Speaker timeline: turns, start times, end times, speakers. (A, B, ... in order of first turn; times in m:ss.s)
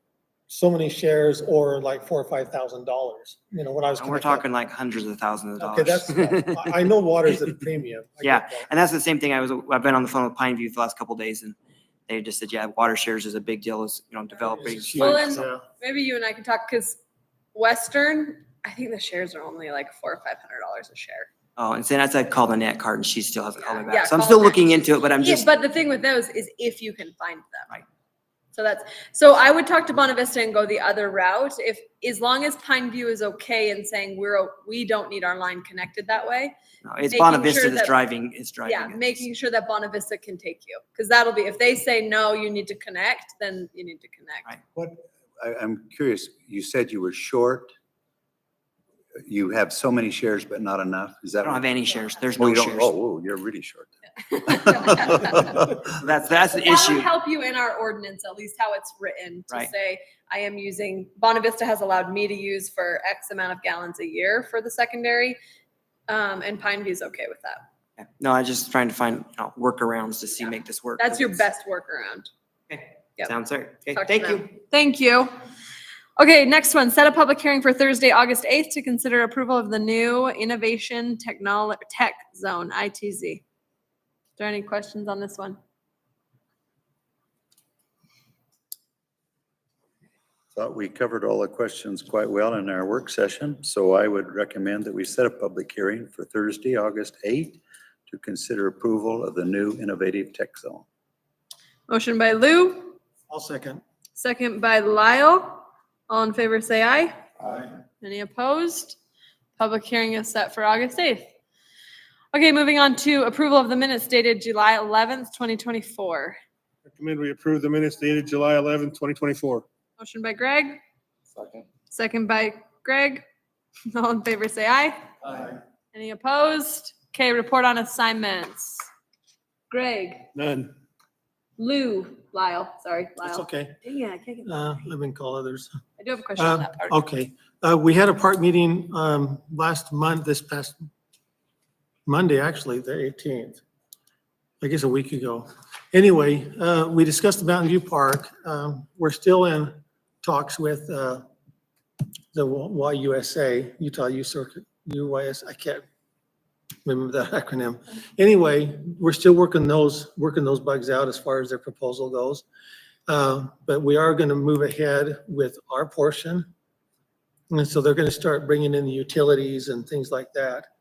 0:00.5-0:04.5 A
0:04.0-0:06.7 B
0:05.6-0:08.7 A
0:08.2-0:11.6 B
0:12.1-0:15.4 B
0:14.6-0:15.6 A
0:15.0-0:17.0 C
0:17.5-0:21.3 C
0:21.6-0:25.5 B
0:23.7-0:24.6 C
0:25.2-0:27.7 C
0:28.5-0:36.5 C
0:36.8-0:39.2 B
0:37.1-0:38.0 C
0:38.6-0:44.5 C
0:44.8-0:47.7 D
0:49.3-0:53.9 D
0:51.4-0:53.0 B
0:54.3-0:55.7 C
0:54.5-0:55.3 D
0:55.9-0:57.1 B
0:56.6-1:05.4 C
1:06.1-1:07.6 C
1:08.0-1:11.4 B
1:11.0-1:12.3 C
1:12.7-1:14.5 B
1:13.9-1:15.3 C
1:16.2-1:23.4 C
1:24.4-1:25.6 C
1:30.5-1:40.8 D
1:41.9-1:43.0 C
1:43.3-1:43.8 A
1:44.2-1:47.2 C
1:48.0-1:49.0 C
1:49.6-1:51.3 C
1:52.3-1:56.4 C
1:57.0-1:59.6 E
2:00.0-2:00.8 C
2:01.9-2:03.2 C
2:03.9-2:05.1 C
2:05.9-2:08.9 C
2:09.7-2:10.3 C
2:10.4-2:10.7 E
2:11.6-2:14.8 C
2:13.2-2:13.8 A
2:14.4-2:15.7 A
2:16.0-2:17.0 C
2:16.4-2:20.9 A
2:22.1-2:23.6 A
2:24.6-2:31.2 A
2:32.3-2:35.8 A
2:36.8-2:42.4 A
2:43.1-2:46.5 A
2:47.5-2:50.7 A